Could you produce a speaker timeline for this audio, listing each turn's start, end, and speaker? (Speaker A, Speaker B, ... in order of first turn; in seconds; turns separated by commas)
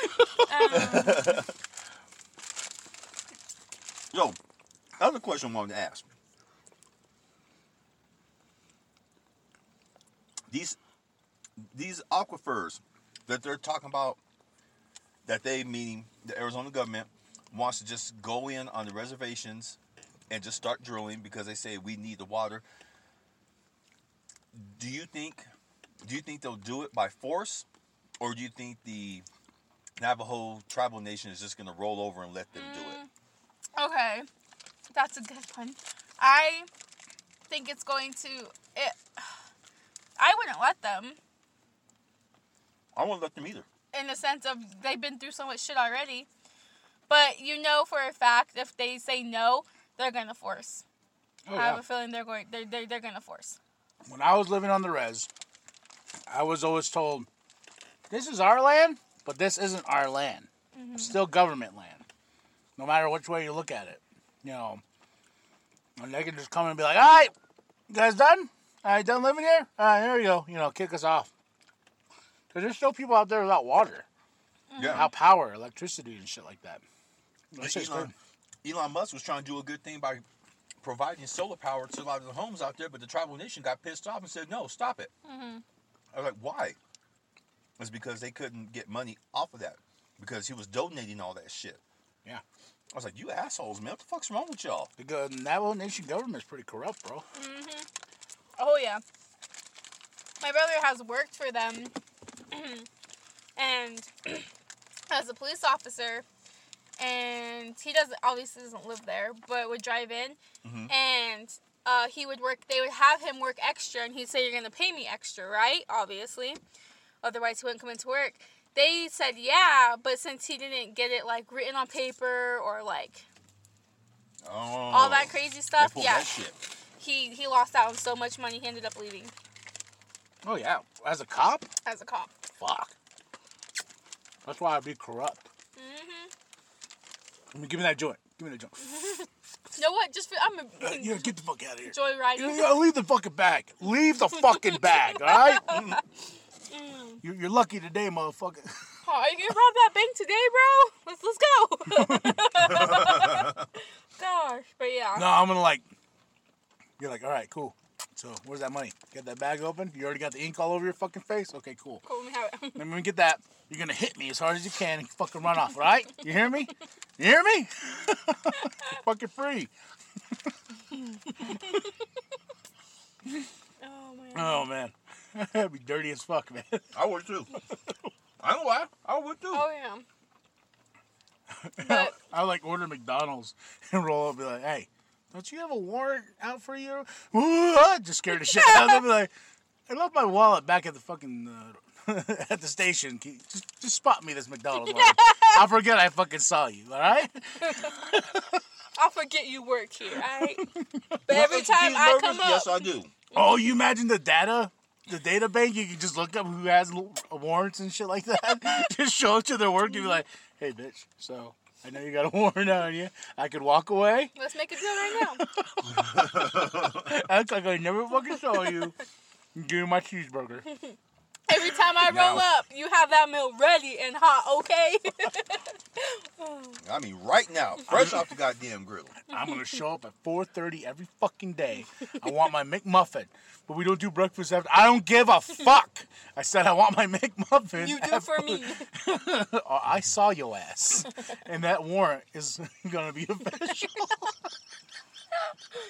Speaker A: 0.4-1.4, Speaker B: 0.6-1.5, Speaker B: 4.1-4.4, Speaker B: 5.0-6.1, Speaker B: 10.5-10.8, Speaker B: 11.7-14.2, Speaker B: 15.3-19.8, Speaker B: 20.3-22.6, Speaker B: 24.5-25.5, Speaker B: 26.0-27.7, Speaker B: 28.2-29.3, Speaker B: 30.0-33.0, Speaker A: 32.5-33.1, Speaker A: 33.8-34.3, Speaker A: 34.9-36.7, Speaker A: 37.5-39.2, Speaker A: 40.2-41.2, Speaker B: 43.0-43.7, Speaker A: 43.9-46.3, Speaker A: 47.1-50.8, Speaker C: 51.5-51.8, Speaker A: 51.5-53.6, Speaker C: 54.1-55.3, Speaker C: 56.3-57.3, Speaker C: 58.1-62.0, Speaker A: 60.7-61.2, Speaker C: 62.8-64.8, Speaker C: 66.0-67.3, Speaker C: 67.9-71.3, Speaker C: 72.5-74.1, Speaker A: 74.7-75.1, Speaker B: 74.8-75.0, Speaker C: 74.8-76.8, Speaker C: 77.5-78.1, Speaker B: 77.6-78.1, Speaker B: 78.6-80.2, Speaker B: 80.8-85.1, Speaker A: 85.2-85.6, Speaker B: 86.1-86.8, Speaker B: 87.8-91.8, Speaker B: 92.9-94.9, Speaker C: 95.0-97.2, Speaker A: 97.3-97.9, Speaker A: 98.6-99.0, Speaker A: 100.4-102.0, Speaker A: 102.5-102.9, Speaker A: 103.6-104.5, Speaker A: 105.1-106.2, Speaker A: 107.0-116.6, Speaker B: 110.6-110.9, Speaker A: 117.2-123.2, Speaker B: 124.4-126.6, Speaker A: 124.9-126.4, Speaker A: 127.0-129.3, Speaker C: 130.4-131.7, Speaker A: 131.8-132.3, Speaker C: 132.6-132.9, Speaker C: 134.5-135.4, Speaker A: 135.8-136.3, Speaker C: 137.5-138.9, Speaker A: 138.8-141.3, Speaker C: 140.8-145.6, Speaker A: 141.8-142.9, Speaker A: 144.6-146.0, Speaker B: 145.7-146.0, Speaker A: 146.7-147.2, Speaker C: 147.2-148.7, Speaker A: 149.0-153.7, Speaker C: 151.9-152.9, Speaker B: 152.7-153.5, Speaker A: 154.2-155.4, Speaker C: 155.2-155.9, Speaker C: 157.0-162.0, Speaker A: 162.0-162.9, Speaker C: 162.8-169.7, Speaker A: 173.8-174.7, Speaker C: 174.3-176.9, Speaker B: 176.9-177.5, Speaker B: 178.4-179.7, Speaker A: 179.5-180.1, Speaker C: 181.6-189.3, Speaker A: 181.8-182.2, Speaker A: 188.5-189.0, Speaker C: 189.9-198.4, Speaker A: 194.9-195.5, Speaker A: 199.0-200.7, Speaker C: 200.4-201.0, Speaker A: 201.2-203.6, Speaker B: 201.3-203.1, Speaker C: 203.3-214.3, Speaker A: 214.3-215.5, Speaker C: 215.4-219.0, Speaker B: 216.0-217.1, Speaker C: 219.6-220.7, Speaker A: 221.5-226.8, Speaker B: 222.1-222.5, Speaker B: 226.8-229.1, Speaker C: 229.3-244.3, Speaker A: 237.8-238.9